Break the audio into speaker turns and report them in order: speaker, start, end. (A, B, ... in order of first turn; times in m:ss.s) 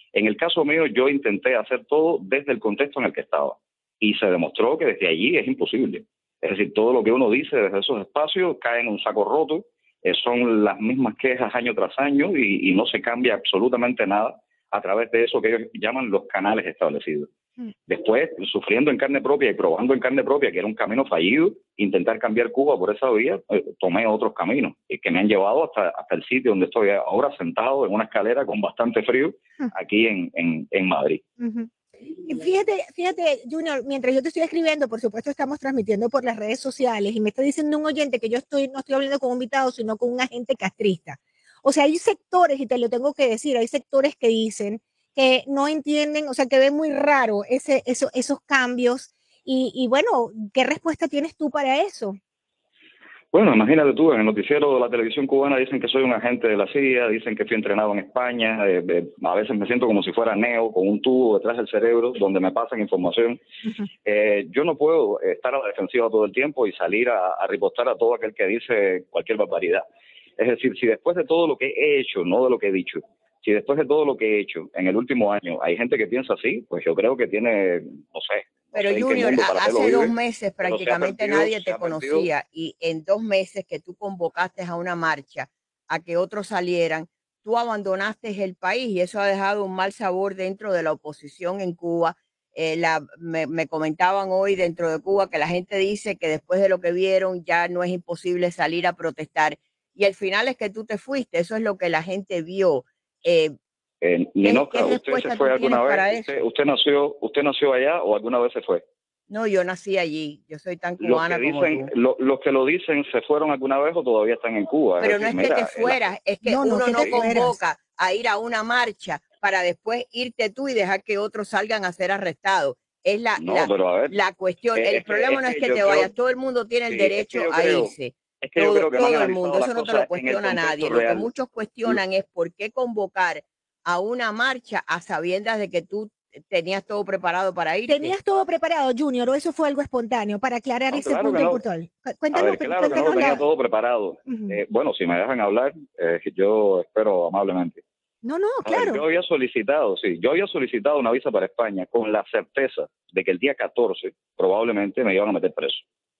0:00.1-0:17.3 A
0:17.9-0:31.2 A
0:31.4-0:31.7 B
0:32.2-0:52.2 B
0:53.3-1:03.4 A
1:04.0-1:09.8 A
1:10.4-1:22.3 A
1:18.7-1:43.5 C
1:44.0-1:48.8 A
1:44.4-1:46.3 C
1:49.3-1:51.9 C
1:51.0-1:56.0 A
1:55.0-2:18.1 C
1:56.4-1:57.6 B
2:03.4-2:04.1 A
2:04.8-2:06.1 A
2:06.9-2:11.3 A
2:17.9-2:23.4 B
2:20.9-2:21.6 A
2:22.3-2:27.8 A
2:24.3-2:24.5 B
2:28.2-2:29.0 B
2:28.6-2:35.8 A